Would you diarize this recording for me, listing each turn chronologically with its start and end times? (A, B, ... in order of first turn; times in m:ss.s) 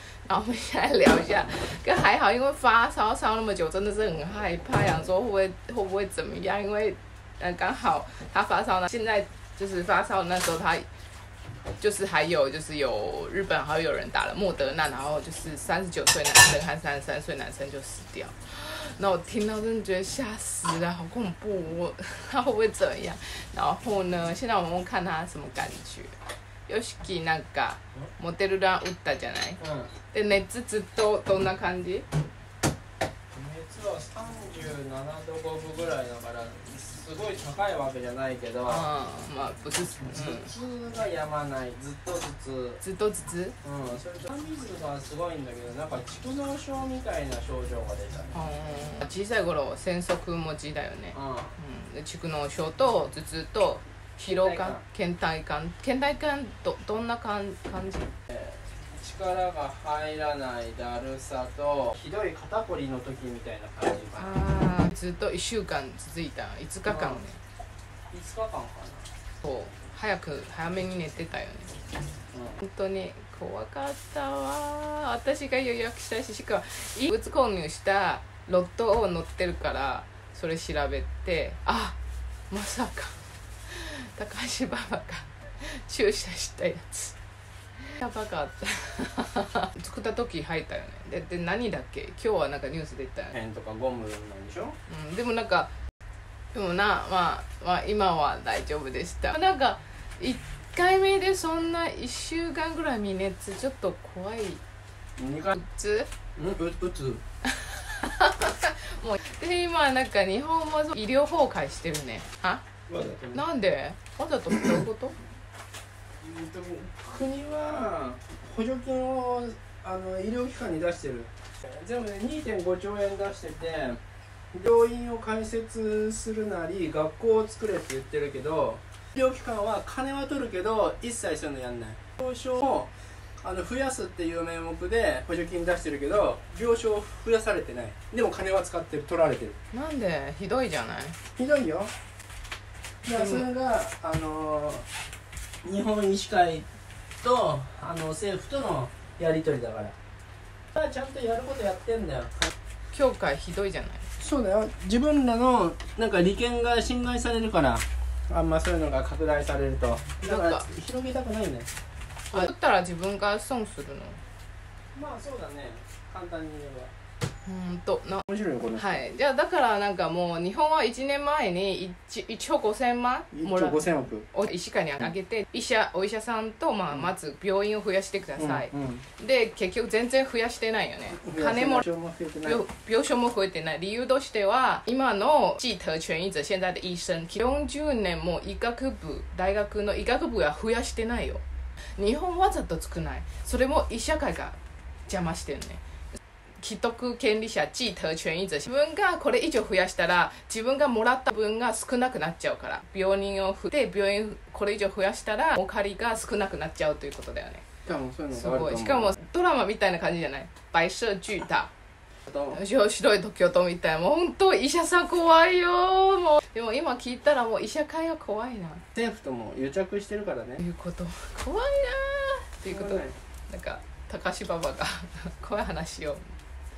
0:00.3-0:10.9 A
0:11.8-0:26.1 A
0:26.7-0:29.6 A
0:29.6-0:29.9 B
0:30.1-0:32.1 A
0:33.3-0:38.9 B
0:38.7-0:40.5 A
0:40.1-0:42.8 B
0:42.8-0:43.6 A
0:43.6-0:48.3 B
0:48.3-0:58.1 A
0:51.1-0:51.6 B
0:54.2-0:54.8 B
0:58.3-1:04.3 B
1:04.2-1:07.4 A
1:06.9-1:07.2 B
1:08.1-1:09.1 B
1:09.4-1:11.8 A
1:12.3-1:12.6 B
1:12.6-1:22.0 A
1:22.5-1:27.2 A
1:27.8-1:33.3 A
1:33.3-1:34.8 B
1:34.9-1:35.7 A
1:36.5-1:44.6 A
1:45.2-1:45.6 B
1:45.5-1:46.1 A
1:46.4-1:47.2 B
1:47.5-1:52.6 A
1:52.9-1:53.4 B
1:53.3-1:55.2 A
1:56.2-2:04.0 B
2:04.5-2:19.6 B
2:19.7-2:21.2 A
2:21.4-2:21.9 B
2:23.0-2:24.9 B
2:23.1-2:23.5 A
2:25.6-2:26.7 B
2:27.2-2:30.0 B
2:30.7-2:32.5 B
2:32.9-2:34.1 A
2:34.2-2:41.7 B
2:40.2-2:40.7 A
2:42.3-2:44.2 A
2:44.9-2:46.9 B
2:47.4-2:48.2 A
2:48.3-2:49.0 B
2:48.8-3:01.8 A
2:53.3-2:54.3 B
2:58.4-2:59.0 B
3:01.2-3:02.6 B
3:02.4-3:11.4 A
3:12.0-3:15.8 A
3:16.6-3:27.7 A
3:27.9-3:29.2 B
3:28.3-3:31.7 A
3:32.3-3:38.8 A
3:38.9-3:40.6 B
3:40.6-3:46.3 A
3:42.7-3:43.2 B